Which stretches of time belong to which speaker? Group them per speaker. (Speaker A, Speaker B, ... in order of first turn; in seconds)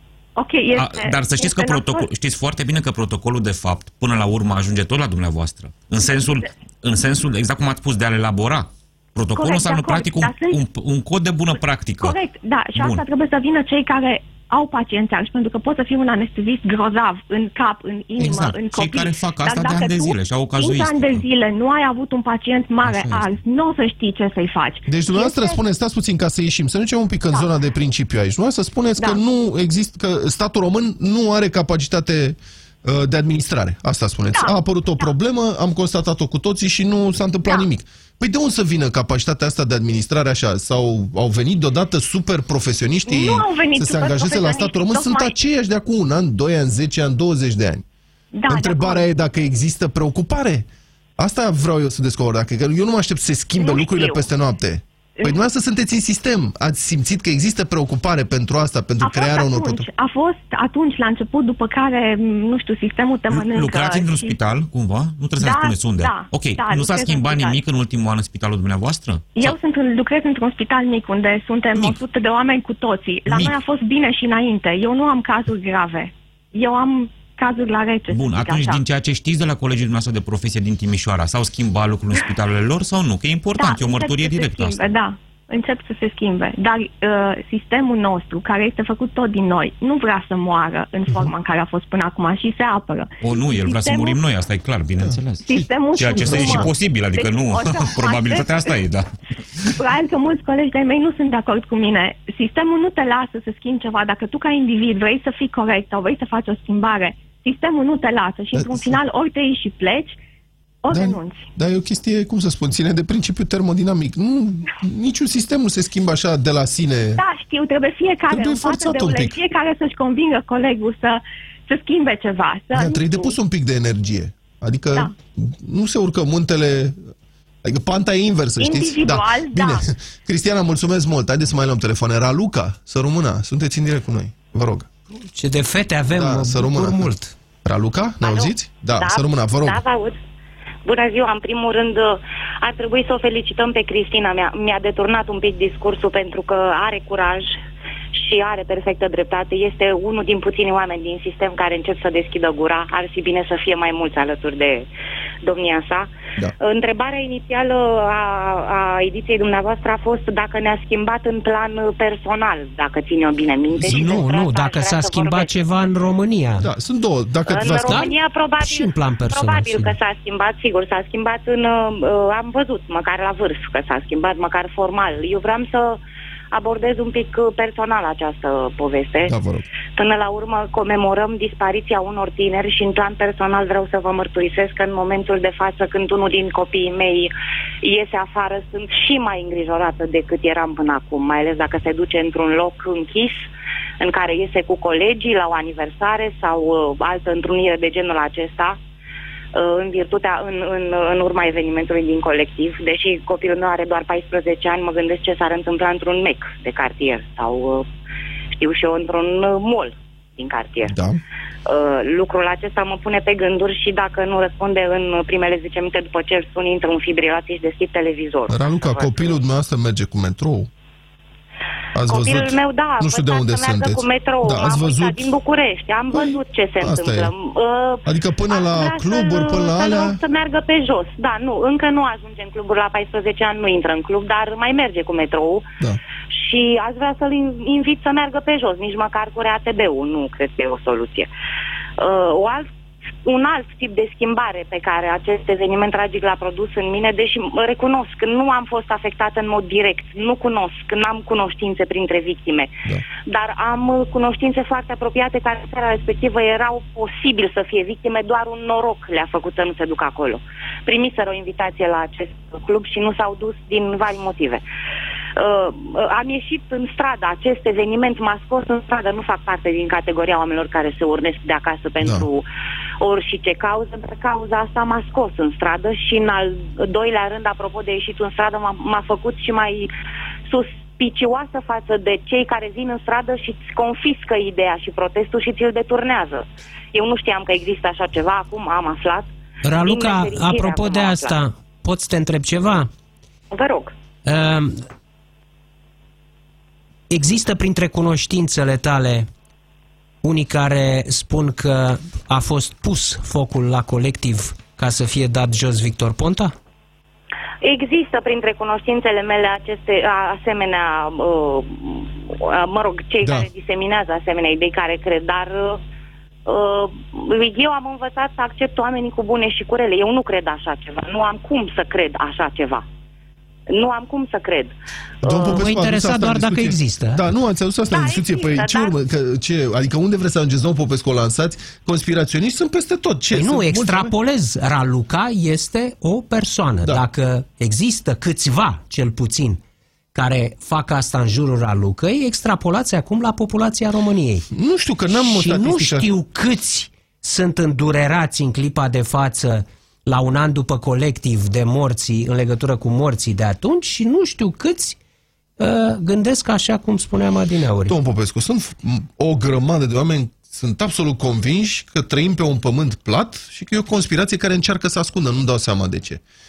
Speaker A: 0.4-2.0, 9.3-10.6, 12.0-25.6, 34.3-35.0, 43.1-45.3, 48.3-49.1, 53.5-54.3, 55.2-55.4, 59.0-64.4, 65.4-67.6, 69.3-78.8, 83.6-94.2, 95.4-98.8, 99.6-110.2, 110.8-111.5, 117.2-123.3, 128.6-129.8
Speaker B: 0.7-12.2, 12.8-13.0, 18.2-21.2, 63.3-69.6, 71.7-72.0, 73.3-73.6, 78.1-84.9, 93.2-99.1
Speaker C: 22.9-23.3, 24.9-47.8, 48.5-50.7, 51.2-59.9, 96.2-96.7, 108.5-109.0, 110.9-117.2, 118.3-119.4, 122.7-127.1, 127.6-134.9, 136.1-137.1, 137.6-139.8, 163.8-164.2, 166.6-168.1, 179.3-179.7, 210.9-211.2, 218.5-220.7, 221.9-225.3, 226.1-227.3, 228.0-230.2, 272.0-272.3, 313.2-313.5, 325.2-334.1, 344.5-346.1, 357.9-366.2
Speaker D: 135.1-137.3, 163.8-166.7, 167.8-169.9, 289.6-292.9, 294.2-294.8, 297.1-299.3, 300.2-306.5, 325.5-327.2, 333.3-339.6, 340.1-344.5, 345.1-355.0, 355.6-357.9
Speaker E: 138.2-140.2, 140.8-147.6, 148.1-154.9, 155.4-165.5, 167.5-176.0, 176.5-179.3, 179.9-193.5, 194.0-198.8, 199.5-207.9, 208.6-210.9, 211.7-219.4, 222.0-235.7, 236.3-241.3, 242.0-242.7, 243.2-252.7, 253.3-264.6, 265.4-272.4, 273.0-279.9, 280.5-291.3, 293.5-293.9, 307.6-315.8, 316.4-322.8, 323.7-325.6, 327.9-329.0